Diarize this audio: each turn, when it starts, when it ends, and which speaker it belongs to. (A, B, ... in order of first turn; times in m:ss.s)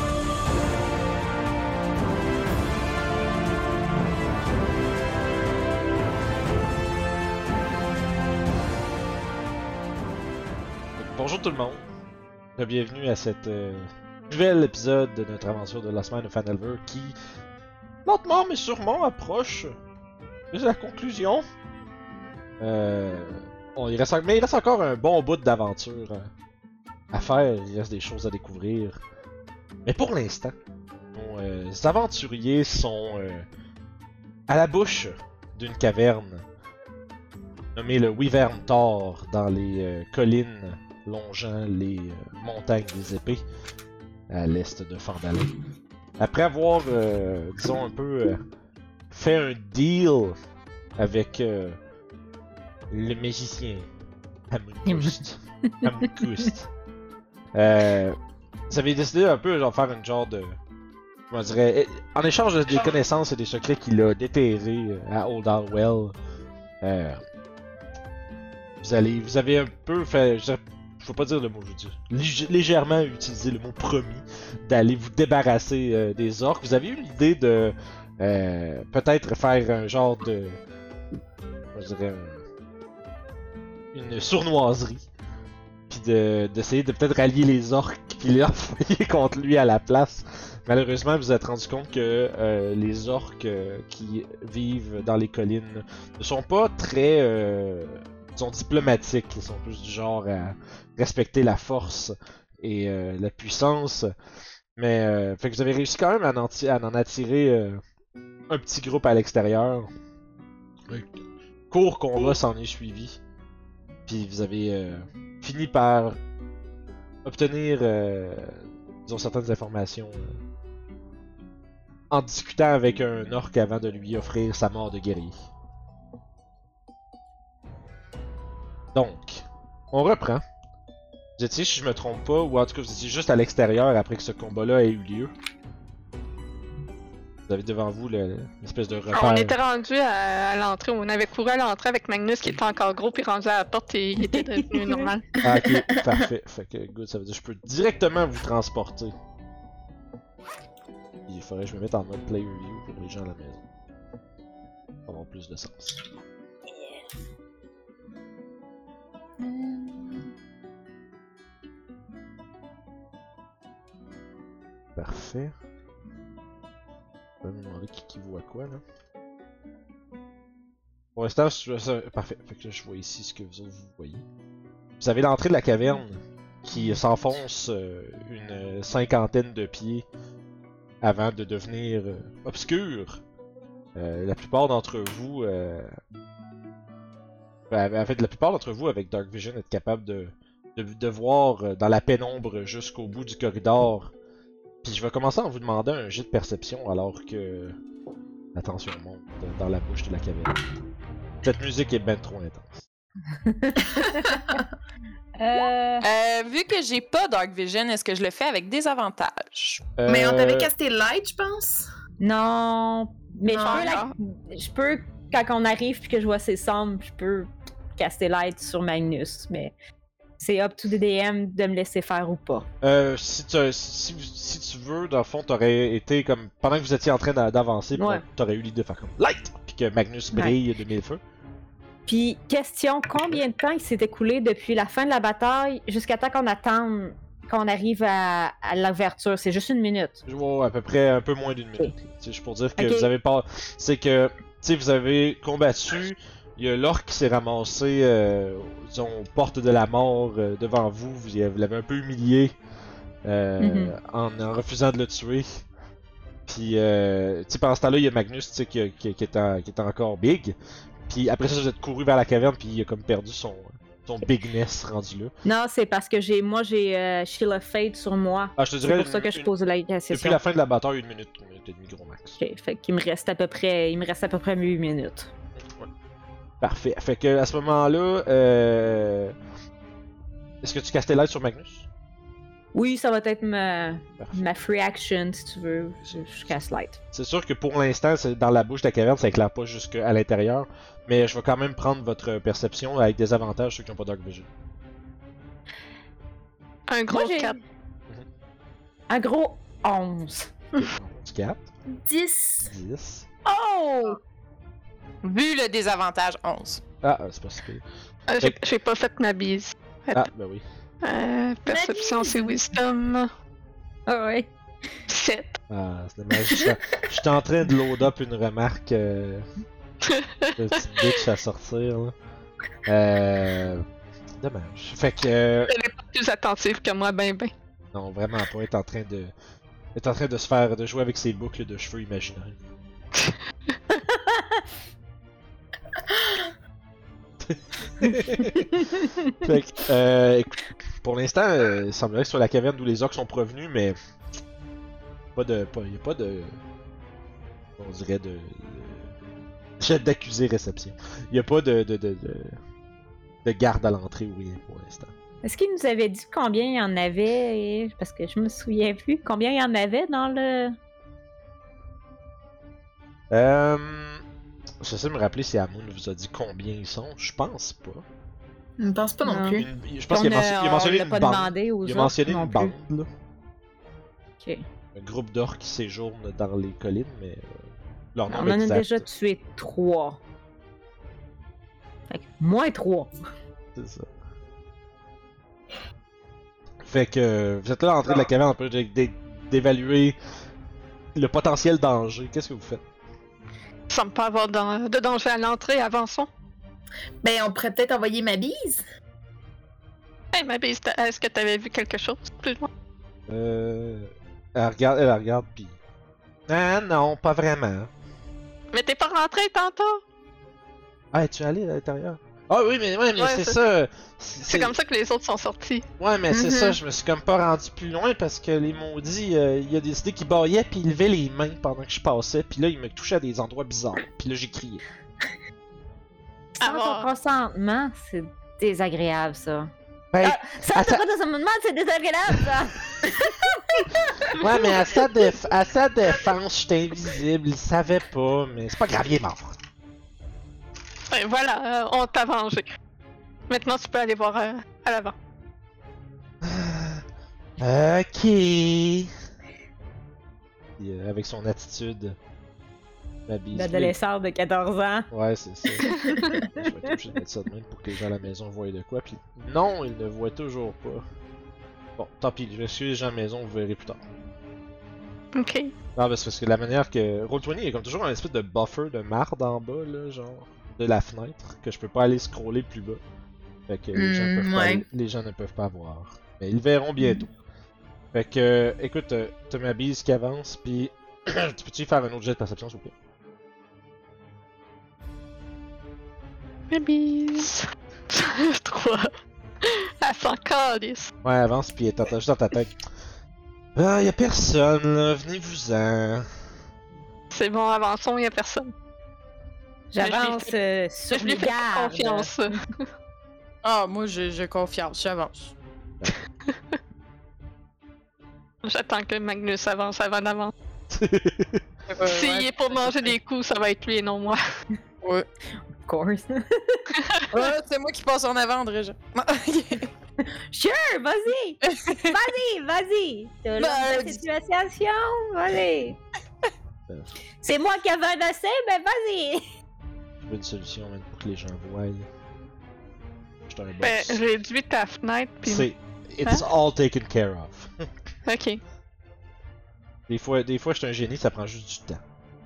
0:11.0-0:11.8 A
0:12.6-0:17.2 A
0:18.1-0:19.8 A
0:20.5-0:21.4 A
0:22.6-0:26.3 A
0:27.1-0:29.0 A
0:29.9-0:30.5 A
0:31.1-0:33.5 A
0:34.5-0:36.4 A
0:37.8-0:43.4 A
0:44.3-0:45.5 A
0:46.2-0:48.4 A
0:49.1-0:50.4 A
0:51.0-0:51.8 A
0:52.9-0:53.9 A
0:54.5-0:56.7 A
0:54.9-0:56.5 B
0:57.6-0:58.2 A
0:58.7-1:00.6 A
1:01.3-1:06.2 A
1:06.8-1:07.2 A
1:08.8-1:20.6 A
1:21.8-1:22.4 A
1:23.9-1:25.1 A
1:25.9-1:44.1 A
1:44.8-1:47.8 A
1:48.5-1:49.9 A
1:50.9-1:53.2 A
1:54.1-1:56.2 A
1:57.2-2:00.4 A
2:02.1-2:05.4 A
2:08.9-2:10.4 A
2:11.4-2:15.3 A
2:17.5-2:19.6 A
2:19.1-2:25.3 C
2:24.2-2:25.1 B
2:25.4-2:29.2 A
2:31.3-2:33.6 A
2:35.1-2:36.0 A
2:39.4-2:40.3 D
2:45.0-2:45.6 A
2:47.4-2:48.8 A
2:51.2-2:54.2 A
2:55.0-3:00.1 A
3:01.0-3:03.2 A
3:04.0-3:05.9 A
3:07.7-3:14.1 A
3:14.8-3:17.8 A
3:18.6-3:20.6 A
3:21.4-3:22.8 A
3:23.4-3:24.6 B
3:23.9-3:24.7 D
3:25.4-3:26.1 B
3:26.0-3:29.9 E
3:30.0-3:30.7 A
3:30.1-3:31.9 D
3:32.2-3:39.7 B
3:33.5-3:33.9 D
3:33.6-3:34.1 C
3:40.4-3:42.7 B
3:42.8-3:51.2 A
3:48.0-3:48.2 B
3:52.1-4:00.2 B
4:00.3-4:12.5 A
4:02.8-4:03.1 B
4:13.2-4:15.7 A
4:13.6-4:14.0 B
4:16.5-4:20.6 A
4:21.1-4:25.3 A
4:25.4-4:30.4 B
4:28.6-4:29.5 A
4:30.1-4:32.4 A
4:32.4-4:35.3 B
4:36.6-4:39.4 A
4:40.6-4:41.9 A
4:42.7-4:47.0 B
4:47.1-4:54.5 A
4:56.9-4:57.6 C
4:57.1-4:57.6 B
4:59.1-5:00.6 B
5:00.8-5:01.7 A
5:02.0-5:02.7 D
5:02.6-5:03.3 A
5:03.4-5:04.2 B
5:05.2-5:06.8 E
5:07.0-5:07.8 A
5:08.3-5:10.3 C
5:10.1-5:10.6 A
5:11.0-5:13.3 C
5:11.7-5:12.6 D
5:14.1-5:14.5 B
5:15.1-5:15.6 C
5:15.7-5:19.5 A
5:20.0-5:21.2 C
5:20.6-5:22.1 A
5:22.9-5:23.9 A
5:24.4-5:25.7 A
5:25.7-5:27.5 C
5:27.9-5:29.3 A
5:30.0-5:32.6 A
5:33.9-5:34.6 B
5:37.4-5:44.0 A
5:45.4-5:46.6 A
5:47.8-5:49.1 A
5:49.8-5:52.6 A
5:53.4-5:55.1 A
5:55.4-6:00.8 B
6:03.3-6:04.2 A
6:04.8-6:08.0 A
6:08.8-6:09.7 D
6:09.2-6:12.7 B
6:09.5-6:13.1 A
6:15.0-6:17.6 A
6:18.1-6:19.0 A
6:18.3-6:20.2 B
6:22.1-6:23.1 B
6:23.8-6:24.1 A
6:26.9-6:30.2 A
6:31.2-6:32.8 A
6:33.9-6:36.3 C
6:37.2-6:38.8 D
6:40.3-6:42.7 C
6:43.3-6:45.8 A
6:46.5-6:47.9 A
6:48.7-6:50.0 C
6:51.1-6:54.8 A
6:53.2-6:53.6 C
6:54.5-6:55.8 C
6:56.0-7:04.8 A
6:56.3-6:56.8 B
7:06.6-7:07.1 C
7:06.6-7:09.7 B
7:10.1-7:11.0 A
7:10.2-7:13.8 B
7:14.3-7:19.6 A
7:14.4-7:14.7 B
7:21.1-7:22.7 C
7:23.5-7:25.2 C
7:26.4-7:27.0 A
7:27.6-7:29.1 A
7:30.8-7:32.2 A
7:33.3-7:34.0 A
7:33.5-7:35.1 B
7:35.1-7:41.1 A
7:35.9-7:36.2 C
7:36.0-7:36.9 B
7:42.0-7:44.0 A
7:45.4-7:45.7 C
7:46.0-7:53.0 A
7:53.7-7:57.3 A
7:54.0-7:54.8 D
7:58.1-8:02.9 A
8:06.7-8:11.1 C
8:11.2-8:12.8 A
8:13.8-8:16.3 A
8:17.3-8:18.7 C
8:19.9-8:22.5 B
8:20.0-8:20.5 C
8:21.1-8:22.8 C
8:23.6-8:25.5 E
8:28.6-8:30.5 C
8:30.9-8:31.6 A
8:31.9-8:33.1 E
8:32.0-8:34.4 C
8:35.8-8:36.9 B
8:36.9-8:37.2 C
8:37.3-8:39.9 E
8:40.5-8:46.0 B
8:41.7-8:42.2 E
8:43.6-8:44.2 E
8:47.4-8:49.4 B
8:50.2-8:52.1 A
8:53.5-8:54.2 A
8:53.8-8:55.7 C
8:55.4-8:57.7 A
8:58.3-8:58.6 C
9:00.1-9:02.0 A